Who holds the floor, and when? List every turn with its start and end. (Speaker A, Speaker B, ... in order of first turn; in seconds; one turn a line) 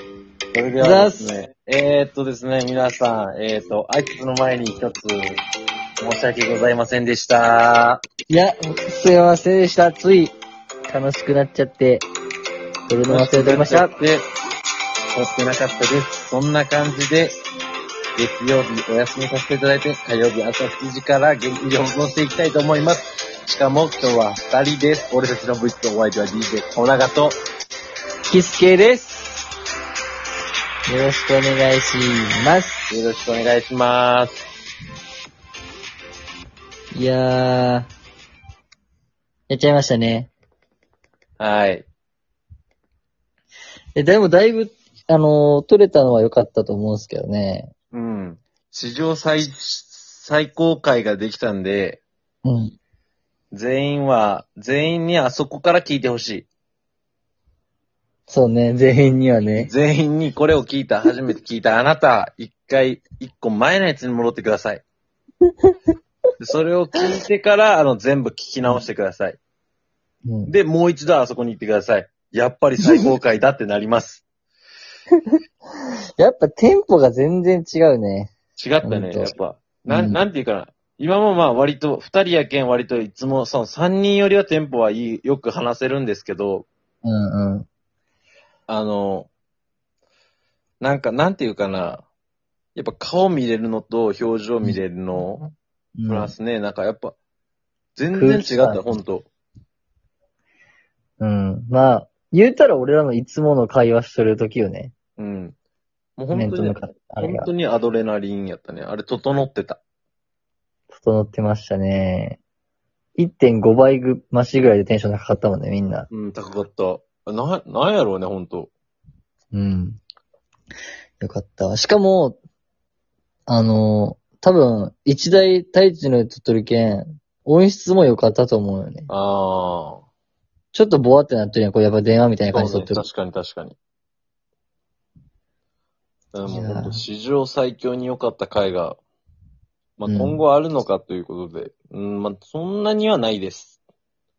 Speaker A: 0.5-5.4
Speaker B: 0.8-1.3
Speaker A: 6.0-8.0
Speaker B: 8.3-12.1
Speaker B: 12.9-13.9
Speaker A: 13.1-14.3
Speaker A: 15.1-17.4
Speaker A: 18.2-27.4
Speaker B: 28.3-29.4
Speaker B: 30.9-32.9
Speaker A: 32.9-34.4
Speaker B: 36.9-37.9
Speaker B: 39.5-40.3
Speaker A: 41.4-41.9
Speaker B: 44.0-47.7
Speaker A: 47.9-52.0
Speaker B: 52.4-52.8
Speaker A: 53.5-56.5
Speaker B: 58.3-59.7
Speaker A: 59.6-64.8
Speaker A: 66.4-69.4
Speaker B: 70.3-70.5
Speaker A: 70.5-74.2
Speaker B: 76.2-79.3
Speaker A: 78.6-86.7
Speaker B: 79.9-80.2
Speaker B: 87.0-87.7
Speaker A: 88.7-89.3
Speaker A: 90.8-92.1
Speaker A: 92.8-95.5
Speaker B: 96.0-96.3
Speaker A: 96.1-97.2
Speaker A: 98.0-99.3
Speaker B: 98.2-98.9
Speaker B: 101.2-104.9
Speaker A: 105.2-105.6
Speaker A: 106.2-109.8
Speaker B: 106.3-107.5
Speaker B: 110.9-112.4
Speaker B: 113.2-116.1
Speaker A: 116.1-118.7
Speaker B: 119.5-120.0
Speaker B: 121.2-122.4
Speaker B: 123.5-129.1
Speaker A: 129.1-130.1
Speaker B: 130.7-133.1
Speaker A: 132.5-133.8
Speaker A: 136.3-139.0
Speaker B: 136.4-137.0
Speaker A: 140.0-143.8
Speaker B: 140.1-140.4